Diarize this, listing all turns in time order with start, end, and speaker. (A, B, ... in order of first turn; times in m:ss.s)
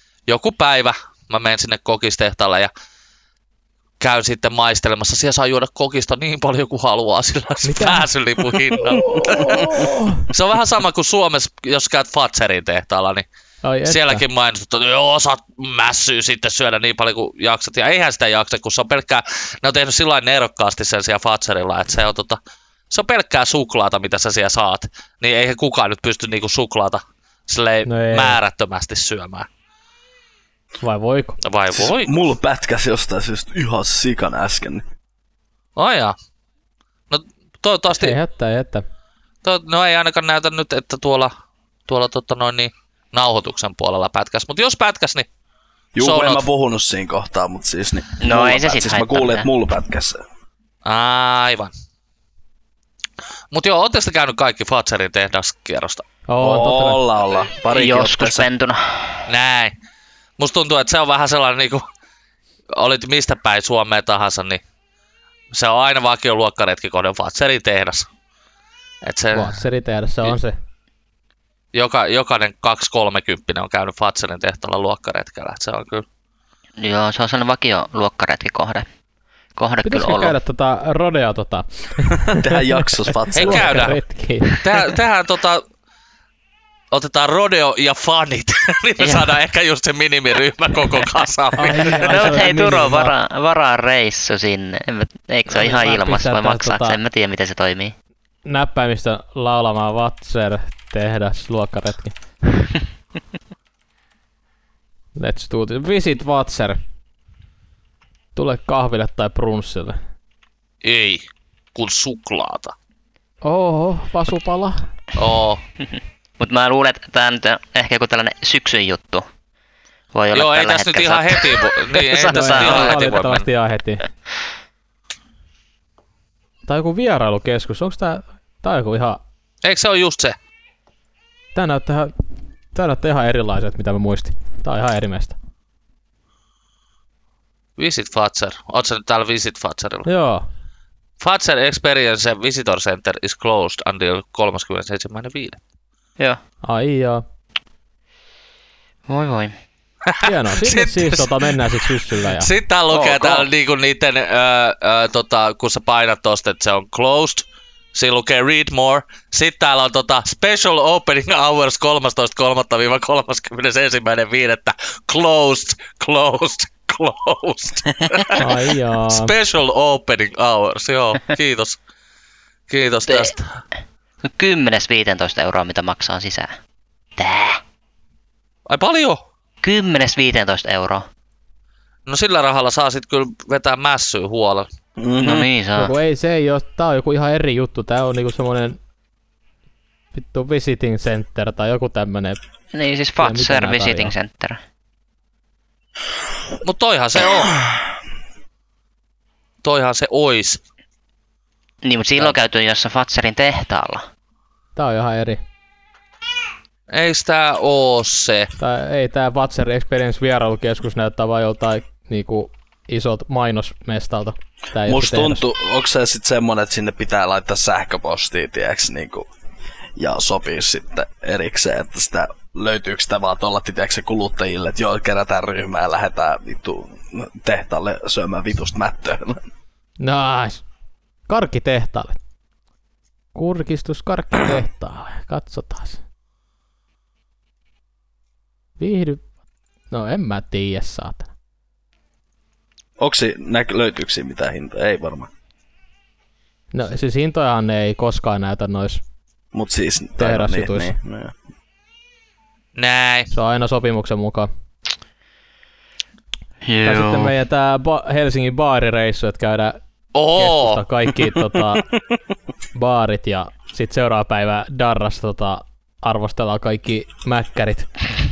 0:00.3-0:02.7 A
0:04.0-0:13.2 A
0:07.6-0:08.1 B
0:08.9-0:10.3 B
0:13.6-0:14.2 B
0:13.9-0:22.4 A
0:22.9-0:29.5 A
0:27.9-0:28.4 B
0:30.8-0:31.4 B
0:31.4-0:32.2 A
0:31.7-0:34.8 C
0:35.8-0:36.2 A
0:37.1-0:38.2 A
0:37.9-0:38.8 B
0:39.4-0:41.3 A
0:41.9-0:45.3 A
0:46.0-0:50.2 C
0:46.0-0:46.4 A
0:48.2-0:49.5 D
0:50.8-0:51.7 A
0:53.5-0:56.0 A
0:56.3-0:57.0 B
0:56.4-0:58.5 C
0:57.7-0:59.2 D
0:59.3-0:59.7 A
1:00.4-1:01.8 A
1:02.8-1:04.6 A
1:05.5-1:08.1 A
1:09.0-1:09.6 A
1:09.3-1:10.6 B
1:11.7-1:16.0 A
1:16.8-1:18.9 D
1:19.6-1:20.3 D
1:19.8-1:24.6 B
1:22.2-1:23.9 C
1:23.4-1:24.0 A
1:24.6-1:25.6 A
1:26.9-1:32.5 A
1:29.0-1:29.3 D
1:31.6-1:33.1 B
1:31.8-1:37.9 D
1:35.5-1:37.0 B
1:38.5-1:42.2 B
1:45.2-1:46.8 B
1:48.4-1:50.0 B
1:50.8-1:52.8 A
1:53.4-1:54.9 B
1:55.2-1:55.6 A
1:56.4-1:59.3 D
2:00.1-2:03.0 D
2:00.3-2:03.5 A
2:02.3-2:04.0 B
2:06.7-2:09.2 B
2:09.6-2:10.4 A
2:11.6-2:12.1 B
2:12.7-2:15.4 B
2:17.8-2:20.1 A
2:20.0-2:20.5 B
2:21.2-2:25.6 A
2:26.6-2:27.2 B
2:29.1-2:29.5 D
2:30.1-2:48.4 A
2:30.2-2:32.5 B
2:32.9-2:33.4 D
2:33.0-2:33.3 C
2:48.4-2:49.3 B
2:49.1-2:51.8 A
2:52.7-2:53.6 A
2:53.1-2:53.3 D
2:54.2-2:56.6 D
2:57.2-2:57.6 D
2:58.7-2:59.2 A
2:59.6-3:01.0 D
3:02.1-3:04.7 A
3:05.0-3:05.5 C
3:05.2-3:05.9 D
3:05.8-3:08.8 B
3:10.1-3:12.4 B
3:12.7-3:14.6 D
3:13.2-3:14.1 B
3:16.6-3:17.6 A
3:19.6-3:20.6 A
3:21.8-3:24.1 D
3:24.8-3:25.4 B
3:26.9-3:28.5 A
3:28.6-3:35.4 B
3:34.9-3:39.3 C
3:40.0-3:49.4 C
3:50.0-3:50.6 B
3:51.3-3:52.2 B
3:53.4-3:56.0 B
3:58.8-3:59.3 B
3:59.9-4:01.3 B
4:03.0-4:05.3 C
4:06.7-4:09.0 B
4:09.5-4:11.4 C
4:10.2-4:11.0 B
4:12.8-4:13.3 A
4:13.3-4:14.5 B
4:16.6-4:17.3 D
4:16.8-4:19.8 B
4:20.2-4:20.8 A
4:20.4-4:21.9 B
4:22.8-4:27.9 B